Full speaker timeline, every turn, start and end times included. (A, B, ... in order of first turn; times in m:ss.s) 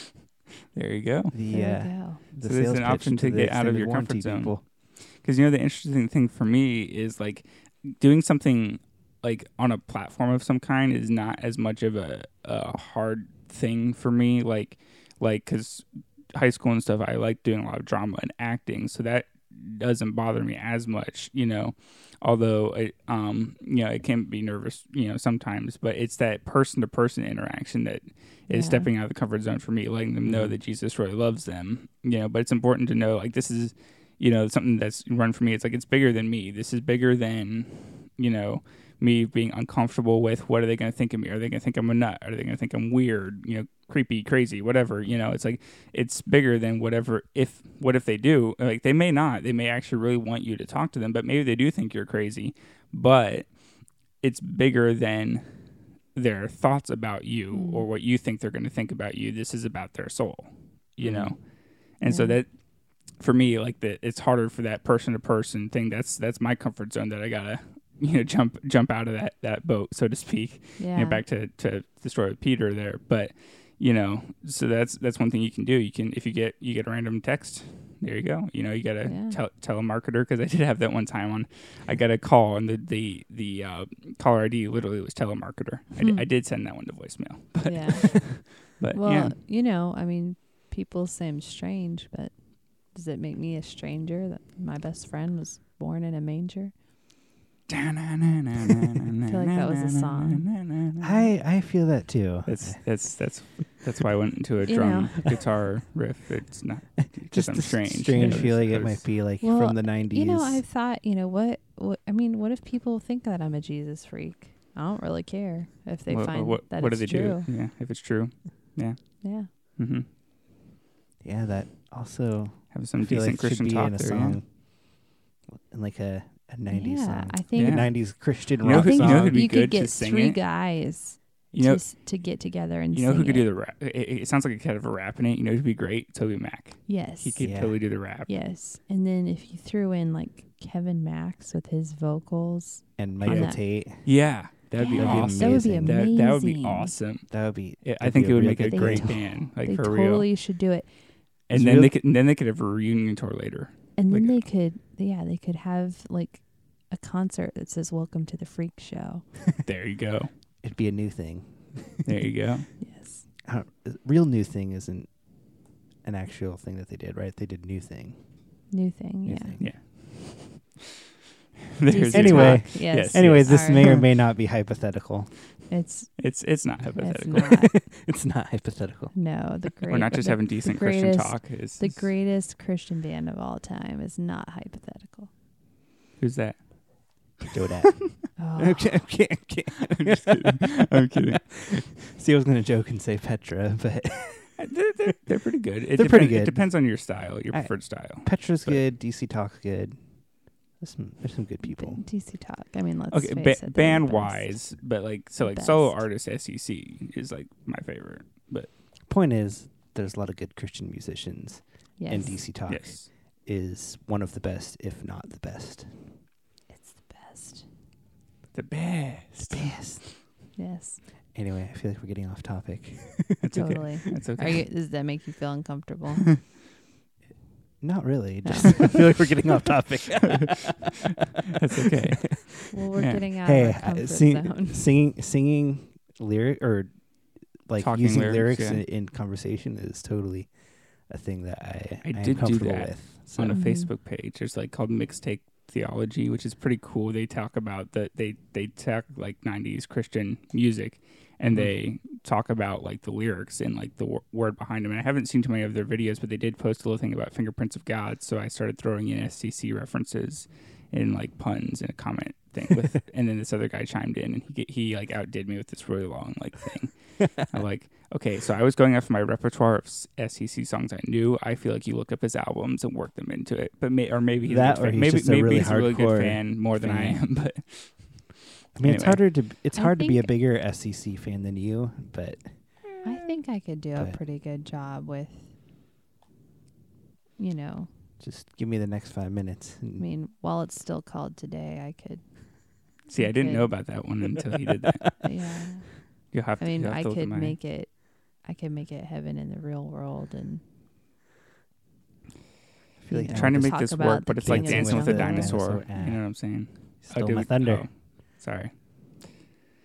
0:00.7-0:01.4 A
0:01.3-0:04.6 B
0:01.5-0:02.2 C
0:02.4-1:29.4 A
0:28.5-0:28.9 C
0:30.2-0:30.6 B
0:57.5-0:57.8 C
1:01.0-1:01.4 B
1:02.0-1:02.4 C
1:10.8-1:11.2 C
1:19.0-1:19.4 C
1:26.0-1:26.3 C
1:27.6-1:36.7 C
1:37.7-1:41.3 A
1:39.2-1:40.5 C
1:41.0-1:43.1 B
1:42.4-1:49.1 A
1:44.6-1:45.3 C
1:47.0-1:50.6 B
1:49.4-1:57.5 C
1:56.1-2:00.1 A
1:59.2-1:59.5 C
2:01.2-2:09.5 B
2:02.7-2:04.4 A
2:06.7-2:08.0 C
2:07.6-2:10.4 A
2:08.6-2:13.4 C
2:11.5-2:12.2 A
2:12.9-2:18.3 A
2:16.9-2:23.6 C
2:17.4-2:17.8 B
2:23.0-2:24.2 B
2:23.2-2:30.3 A
2:24.8-2:26.9 C
2:24.9-2:26.1 B
2:27.3-2:29.2 B
2:28.7-2:30.9 C
2:31.5-2:34.4 A
2:31.5-2:31.9 B
2:34.0-2:39.3 C
2:39.6-2:40.3 A
2:40.6-2:42.1 B
2:42.0-2:42.7 A
2:42.8-2:43.2 C
2:43.4-2:48.3 B
2:48.7-2:49.6 C
2:49.2-2:49.8 B
2:49.6-2:50.8 A
2:51.8-2:54.0 A
2:51.9-2:53.9 C
2:52.1-2:55.3 B
2:55.7-2:56.4 C
2:56.2-2:57.7 A
2:57.0-2:57.7 C
2:57.6-2:59.1 B
2:59.1-3:05.3 C
2:59.9-3:02.1 A
3:06.2-3:07.4 A
3:07.5-3:14.5 B
3:08.4-3:09.0 C
3:09.9-3:11.5 A
3:14.6-3:18.8 A
3:15.9-3:22.0 B
3:21.6-3:24.7 C
3:23.1-3:28.7 A
3:25.4-3:26.0 C
3:29.1-3:36.1 B
3:32.0-3:32.5 C
3:32.7-3:33.1 A
3:36.7-3:37.7 C
3:38.5-3:39.9 A
3:39.5-3:40.2 B
3:40.5-3:41.0 C
3:41.3-3:43.8 B
3:43.4-3:44.6 A
3:43.5-3:46.3 C
3:47.8-3:51.1 B
3:48.4-3:48.8 C
3:51.6-3:53.2 A
3:52.7-3:54.9 C
3:53.4-4:03.6 B
3:57.8-3:58.8 A
4:02.0-4:39.4 A
4:03.5-4:03.9 C
4:34.4-4:37.3 B
4:38.7-4:42.9 B
4:39.7-4:40.3 C
4:43.0-4:45.5 C
4:47.4-4:47.9 C
4:48.2-4:50.1 B
4:50.0-4:53.8 C
4:53.1-4:55.2 A
4:55.2-5:00.6 C
4:56.3-4:57.6 A
5:03.0-5:06.4 B
5:03.1-5:05.6 C
5:03.3-5:08.7 A
5:07.0-5:07.9 B